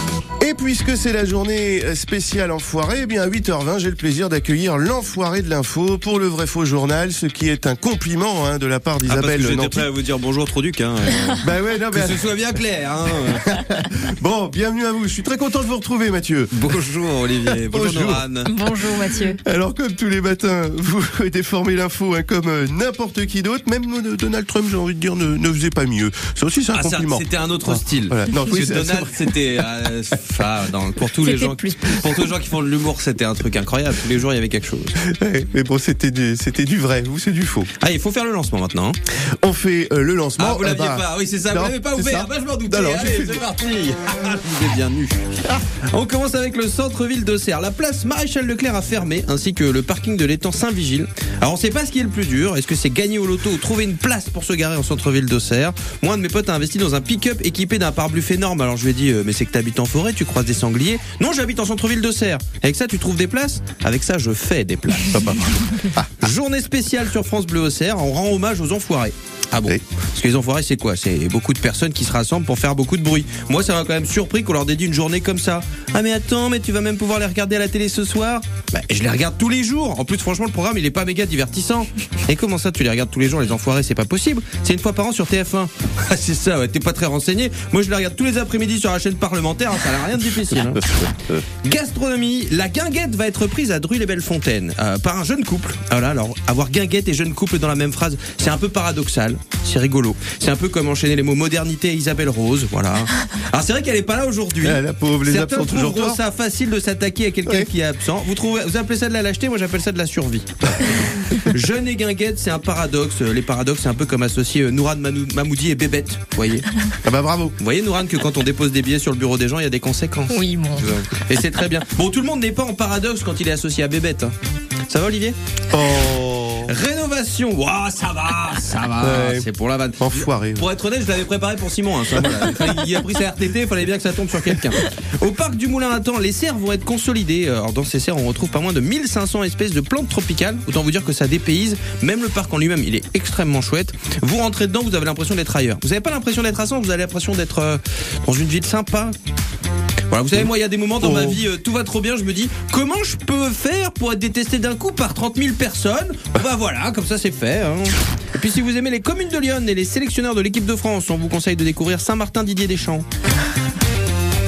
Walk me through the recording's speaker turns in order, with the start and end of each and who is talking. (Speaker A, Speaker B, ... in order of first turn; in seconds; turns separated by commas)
Speaker A: 0.4-9.8, Speaker B: 9.1-13.5, Speaker A: 11.4-12.3, Speaker A: 13.3-16.7, Speaker B: 16.5-18.5, Speaker A: 17.5-18.2, Speaker C: 18.4-19.4, Speaker A: 19.4-29.3, Speaker B: 26.7-34.9, Speaker C: 31.2-32.2, Speaker A: 35.0-37.7, Speaker B: 37.8-39.0, Speaker A: 39.4-43.4, Speaker B: 40.4-116.7, Speaker A: 65.0-66.3, Speaker A: 90.8-91.3, Speaker A: 104.6-106.2, Speaker A: 117.0-117.5, Speaker B: 117.6-124.3, Speaker C: 120.3-120.9, Speaker B: 124.9-125.4, Speaker A: 125.7-126.7, Speaker B: 126.6-149.1, Speaker A: 129.0-129.5, Speaker A: 130.0-130.7, Speaker B: 150.1-163.1, Speaker A: 151.0-151.4